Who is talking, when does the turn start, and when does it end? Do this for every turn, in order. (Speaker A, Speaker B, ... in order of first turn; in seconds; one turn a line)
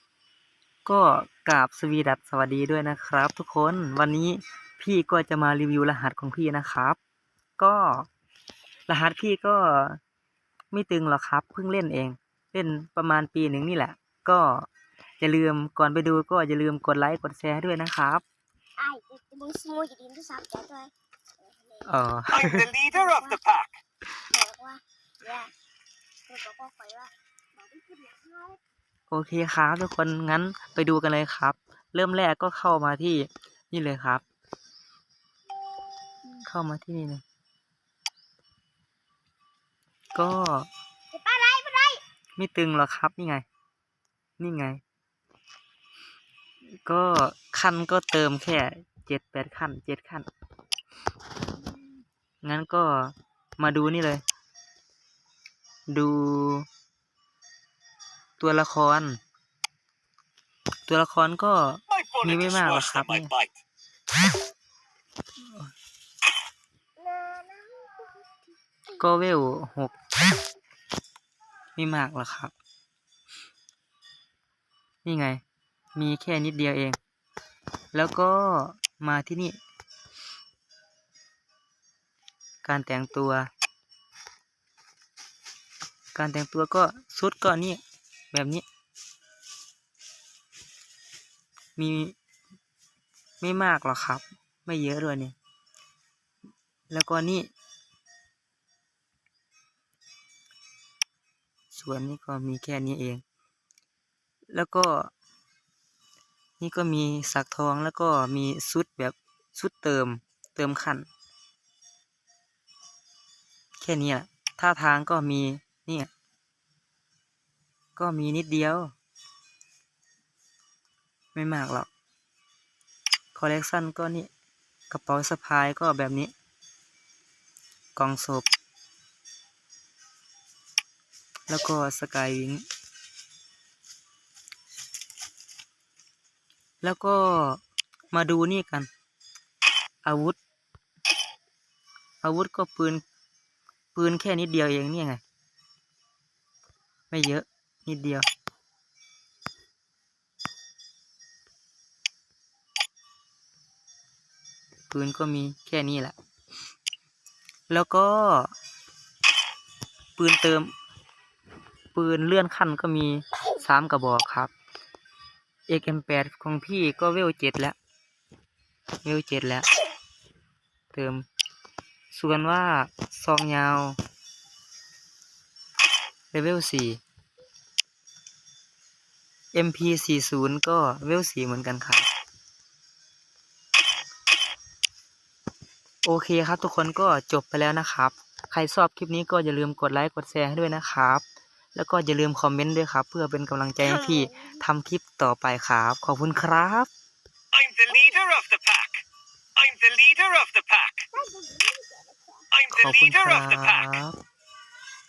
Speaker A: 0.8-7.0
Speaker A: 7.6-8.1
Speaker A: 8.9-10.0
Speaker A: 10.7-14.7
Speaker A: 15.2-18.2
Speaker B: 18.8-21.9
Speaker A: 21.8-22.7
Speaker C: 22.3-23.7
Speaker B: 22.9-23.4
Speaker B: 24.2-25.5
Speaker B: 26.3-28.6
Speaker A: 29.1-34.2
Speaker A: 36.4-37.2
Speaker A: 40.1-40.7
Speaker B: 41.1-42.0
Speaker A: 42.4-43.4
Speaker A: 44.4-44.8
Speaker A: 46.8-50.3
Speaker A: 52.4-54.2
Speaker A: 55.9-56.7
Speaker A: 58.4-59.2
Speaker A: 60.9-63.3
Speaker C: 61.9-63.5
Speaker B: 67.0-68.3
Speaker A: 69.0-70.0
Speaker A: 71.8-72.5
Speaker A: 75.0-75.4
Speaker A: 75.9-77.0
Speaker A: 77.9-79.5
Speaker A: 82.6-83.5
Speaker A: 86.1-87.8
Speaker A: 88.3-88.6
Speaker A: 91.8-92.1
Speaker A: 93.4-95.3
Speaker A: 96.9-97.5
Speaker A: 101.7-103.2
Speaker A: 104.5-105.1
Speaker A: 106.6-111.1
Speaker A: 113.8-116.1
Speaker A: 118.0-118.9
Speaker A: 121.3-121.9
Speaker A: 123.3-124.3
Speaker A: 124.9-126.3
Speaker A: 128.0-128.5
Speaker A: 131.5-132.6
Speaker A: 136.8-137.6
Speaker A: 138.1-138.9
Speaker A: 140.0-140.4
Speaker A: 142.2-143.0
Speaker A: 143.9-145.2
Speaker A: 147.1-148.2
Speaker A: 154.9-156.1
Speaker A: 157.7-158.5
Speaker A: 160.2-160.7
Speaker A: 161.9-164.5
Speaker A: 165.7-167.8
Speaker A: 169.0-169.7
Speaker A: 170.9-171.2
Speaker A: 172.1-174.0
Speaker A: 176.3-177.0
Speaker A: 179.5-182.1
Speaker A: 186.0-191.2
Speaker A: 191.7-196.9
Speaker B: 193.8-194.6
Speaker C: 197.5-199.0
Speaker B: 197.9-198.2
Speaker C: 199.6-201.1
Speaker B: 201.1-202.5
Speaker C: 202.5-203.9
Speaker A: 202.7-204.2